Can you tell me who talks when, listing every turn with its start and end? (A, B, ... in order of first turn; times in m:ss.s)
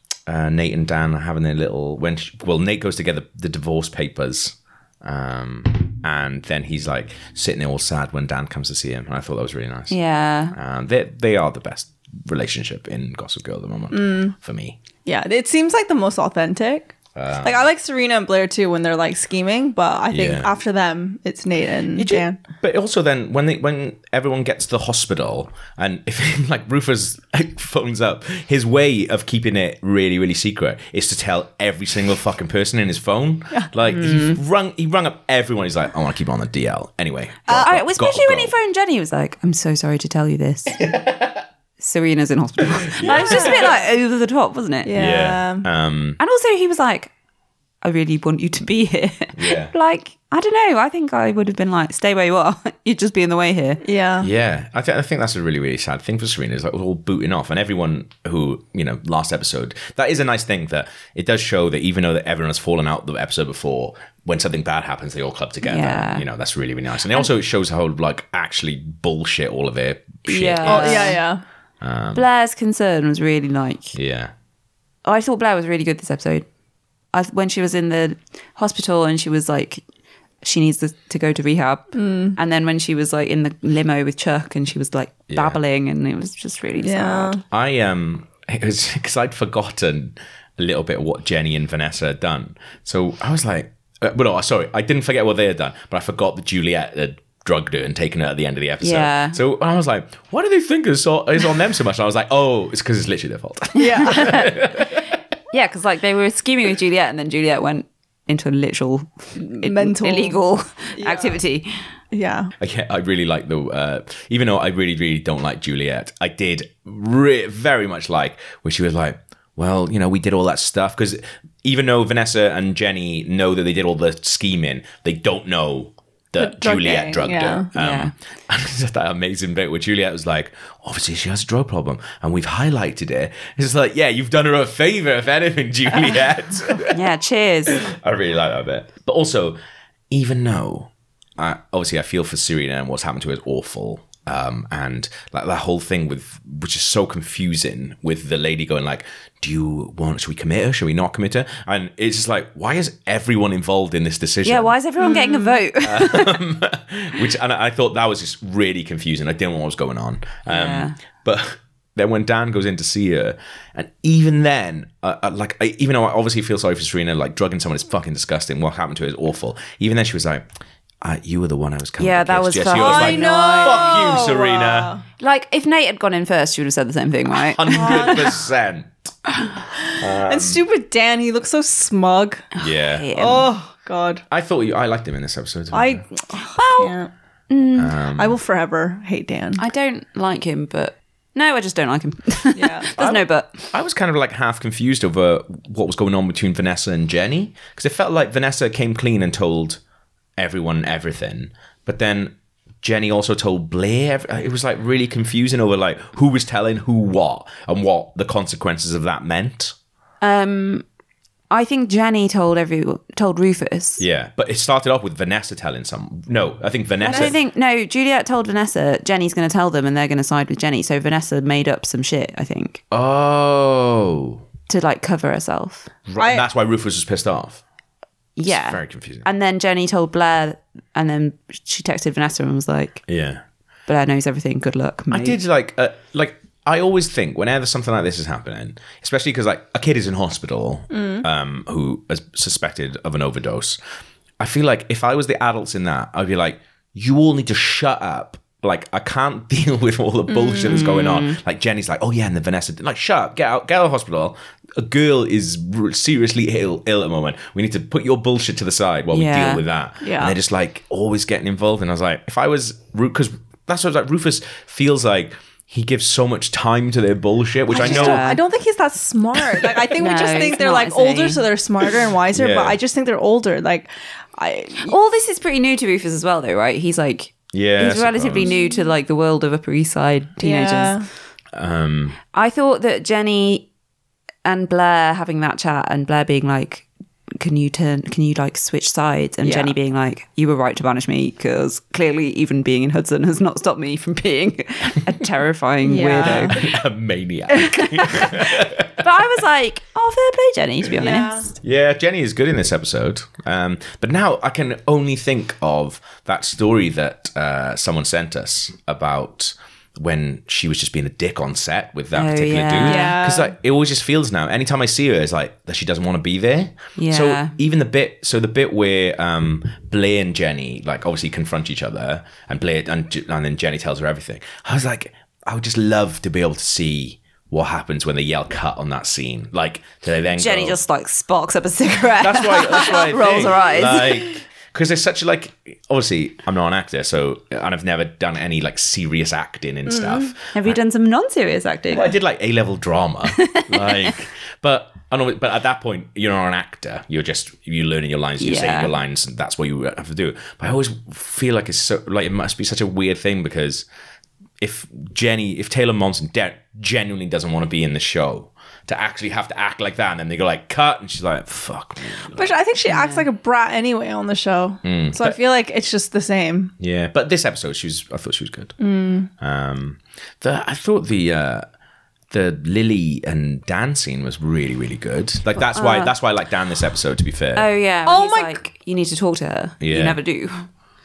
0:00.3-0:09.9 A
0:09.9-0:10.6 B
0:10.5-0:14.8 A
0:13.9-0:14.3 C
0:15.0-0:22.4 C
0:17.1-0:17.6 A
0:20.1-0:20.5 A
0:21.9-0:38.5 A
0:37.5-0:37.7 C
0:37.6-0:40.8 B
0:40.8-0:41.4 A
0:41.8-0:44.9 B
0:42.8-0:43.7 A
0:43.0-0:43.8 C
0:44.8-0:45.7 C
0:44.9-0:46.2 A
0:46.2-0:47.1 B
0:47.8-0:53.8 B
0:49.3-0:49.7 A
0:53.8-0:54.3 C
0:54.2-1:11.2 A
1:05.6-1:06.2 B
1:10.2-1:11.2 B
1:10.6-1:11.4 C
1:11.8-1:12.2 A
1:12.1-1:13.9 B
1:13.9-1:14.3 A
1:15.0-1:16.4 B
1:17.1-1:19.8 B
1:20.4-1:27.4 B
1:21.9-1:22.4 C
1:25.3-1:25.6 A
1:26.8-1:27.4 C
1:27.5-1:45.2 A
1:38.8-1:39.4 B
1:43.7-1:44.5 C
1:44.2-1:44.6 B
1:45.5-1:51.7 B
1:49.4-1:50.4 C
1:50.9-1:51.4 C
1:52.1-1:52.5 C
1:52.6-2:17.0 A
2:06.4-2:07.7 C
2:07.7-2:08.1 B
2:16.9-2:17.8 B
2:17.7-2:19.6 A
2:20.1-2:34.7 A
2:34.4-2:36.4 B
2:35.0-2:35.6 C
2:35.8-2:50.4 A
2:40.4-2:41.0 B
2:51.0-2:54.9 A
2:52.0-2:54.2 B
2:52.7-2:55.0 C
2:55.2-2:58.3 B
2:57.4-2:58.9 A
2:57.7-2:58.3 C
2:59.8-3:02.5 C
3:00.0-3:00.6 A
3:02.6-3:03.5 B
3:02.6-3:03.1 A
3:03.2-3:04.2 C
3:04.3-3:06.0 A
3:05.7-3:07.1 C
3:06.5-3:06.9 B
3:07.5-3:07.9 B
3:07.8-3:08.4 A
3:08.2-3:09.6 C
3:09.6-3:13.7 B
3:12.5-3:12.9 C
3:13.0-3:19.8 A
3:20.4-3:29.7 A
3:30.2-3:30.8 B
3:31.5-3:34.0 B
3:34.0-3:37.4 A
3:37.0-3:42.8 B
3:42.9-3:44.4 A
3:44.7-3:45.9 B
3:46.1-3:47.6 A
3:46.2-3:46.4 C
3:48.4-3:53.0 B
3:48.4-3:49.2 A
3:53.1-3:53.4 A
3:53.9-3:55.4 B
3:55.1-4:03.8 A
4:00.9-4:01.2 C
4:04.4-4:28.3 A
4:10.3-4:10.8 C
4:10.6-4:11.4 B
4:19.1-4:19.6 B
4:20.0-4:20.4 C
4:27.7-4:28.4 B
4:27.7-4:34.9 C
4:30.0-4:31.4 B
4:32.3-4:32.8 A
4:34.8-4:41.0 B
4:37.5-4:38.5 A
4:38.4-4:38.9 C
4:40.4-4:41.1 C
4:41.5-4:42.2 A
4:42.3-4:43.7 B
4:44.4-4:46.9 B
4:47.4-4:56.7 B
4:49.4-4:49.7 C
4:55.8-4:56.6 C
4:56.2-4:59.0 A
4:57.5-5:01.5 B
5:01.0-5:01.5 C
5:01.6-5:30.8 A
5:12.1-5:13.2 B
5:12.8-5:13.5 C
5:17.0-5:17.5 B
5:30.4-5:34.2 B
5:32.2-5:40.8 A
5:39.9-5:40.3 C
5:40.5-5:42.1 B
5:41.9-5:53.8 A
5:43.3-5:44.1 B
5:48.4-5:48.9 B
5:54.6-6:02.5 A
6:02.3-6:06.7 C
6:02.9-6:03.2 B
6:04.8-6:05.4 A
6:06.8-6:08.7 A
6:08.8-6:09.3 C
6:09.4-6:11.6 A
6:12.3-6:17.7 A
6:15.6-6:16.1 B
6:17.5-6:20.7 B
6:18.0-6:18.6 C
6:19.8-6:20.2 A